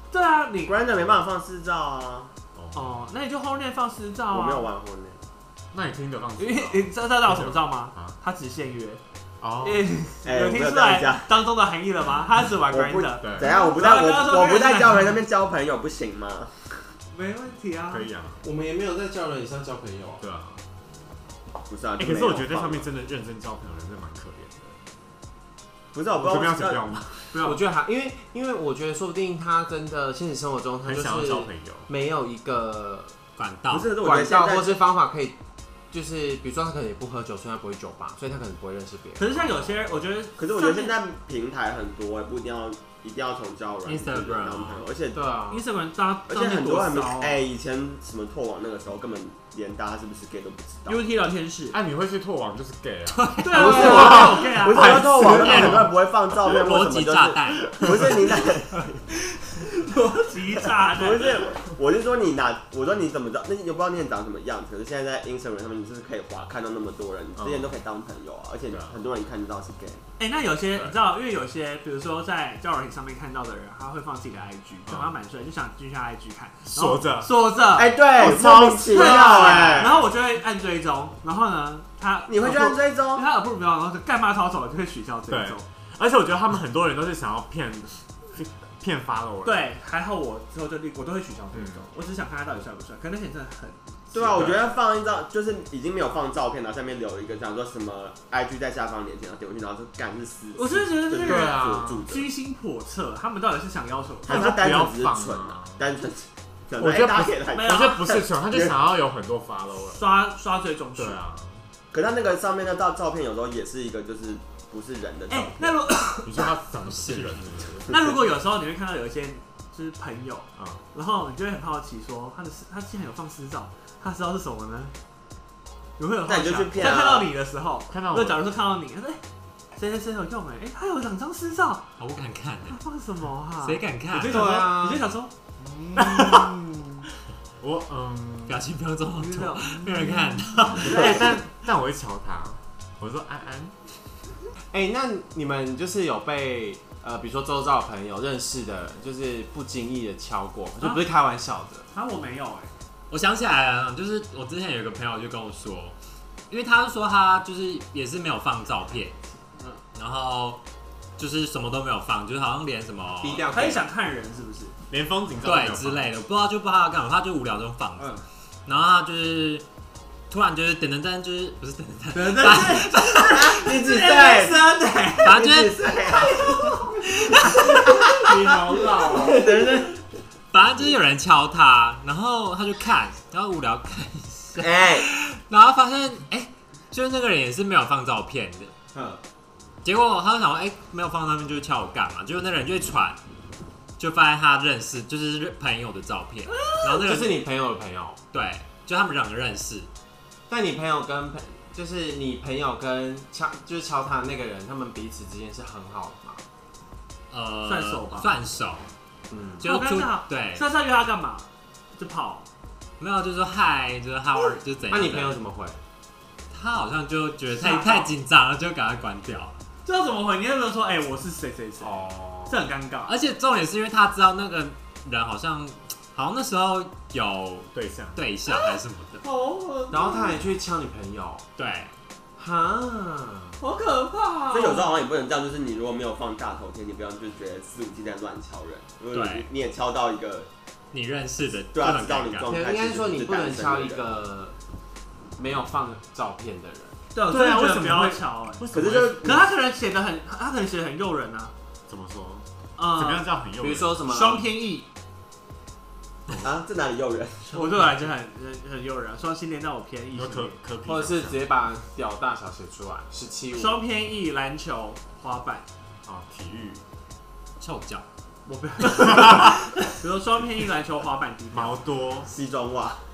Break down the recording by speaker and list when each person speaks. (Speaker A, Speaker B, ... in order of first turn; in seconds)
Speaker A: 0.1-0.8, 2.7-4.7, 6.4-9.0, 9.6-15.1, 17.1-18.1, 27.3-27.6, 39.2-41.0, 45.5-47.5, 50.9-51.8, 53.4-55.8, 59.6-61.4, 70.2-77.9, 78.9-85.7, 89.4-94.0, 100.5-104.6, 107.5-108.2, 109.9-111.2, 115.3-116.5, 117.9-124.9, 126.0-129.2, 129.8-131.8, 132.7-135.3, 139.2-140.1, 150.8-151.0, 151.9-152.7, 163.5-164.8, 172.1-175.4, 176.3-176.8, 207.7-208.3, 209.6-212.5, 217.5-218.2, 219.8-223.2, 228.5-230.4, 233.6-235.0, 247.1-248.7, 249.2-251.5, 252.8-253.3, 254.1-254.9, 257.5-260.6, 263.5-265.7, 268.5-271.9
Speaker B: 0.7-2.3, 4.3-5.2, 10.2-11.3, 12.7-16.8, 21.7-22.9, 25.9-27.0, 33.7-34.8, 40.4-45.2, 46.3-51.0, 53.6-59.0, 60.9-70.0, 77.8-79.9, 82.3-83.2, 94.1-102.3, 104.3-108.8, 111.9-115.8, 126.2-127.3, 173.3-174.6, 175.3-176.9, 179.0-180.0, 184.6-185.1, 234.5-240.5, 241.7-244.1, 248.7-249.4, 256.4-257.6, 272.3-273.0
Speaker C: 2.5-3.1, 5.7-8.2, 9.4-9.9, 13.2-13.6, 17.9-18.4, 20.2-20.6, 22.0-24.8, 26.1-27.4, 30.9-31.9, 51.7-56.0, 67.4-67.8, 68.7-69.0, 70.7-71.0, 74.9-75.1, 76.7-77.4, 78.1-80.0, 85.3-89.7, 91.5-91.8, 94.2-94.7, 101.2-102.1, 104.3-105.8, 106.8-110.1, 111.0-111.7, 116.2-118.1, 120.6-120.8, 127.9-128.4, 135.9-136.6, 137.6-138.7, 140.1-143.9, 164.9-166.2, 227.7-228.2, 247.3-249.4, 251.9-254.1, 260.1-261.5, 266.1-266.8, 269.0-269.6, 271.5-272.3
Speaker D: 18.4-20.2, 27.4-33.1, 34.0-35.4, 35.9-40.0, 45.1-45.6, 53.5-54.4, 134.2-135.1, 135.6-136.9, 144.7-151.9, 163.2-163.8, 178.2-179.6, 188.9-189.2, 196.9-198.2, 200.5-206.4, 209.3-209.6, 214.9-215.8, 221.8-222.6, 229.9-231.4, 232.4-233.6, 242.5-244.6, 245.4-247.0, 253.6-254.4, 260.9-263.8
Speaker E: 33.4-33.9, 43.9-44.8, 53.1-53.8, 56.4-58.3, 116.9-117.5, 132.0-132.8, 133.6-134.6, 138.5-141.2, 153.1-155.9, 156.5-159.2, 159.9-160.6, 161.2-163.5, 165.4-169.6, 170.3-173.6, 175.2-175.9, 177.3-177.9, 180.5-188.7, 189.8-193.2, 194.0-197.4, 198.3-199.9, 207.3-208.9, 209.6-210.7, 213.0-215.4, 216.5-219.5, 223.1-229.2, 231.6-231.9, 239.1-239.5, 240.9-242.5, 267.6-268.1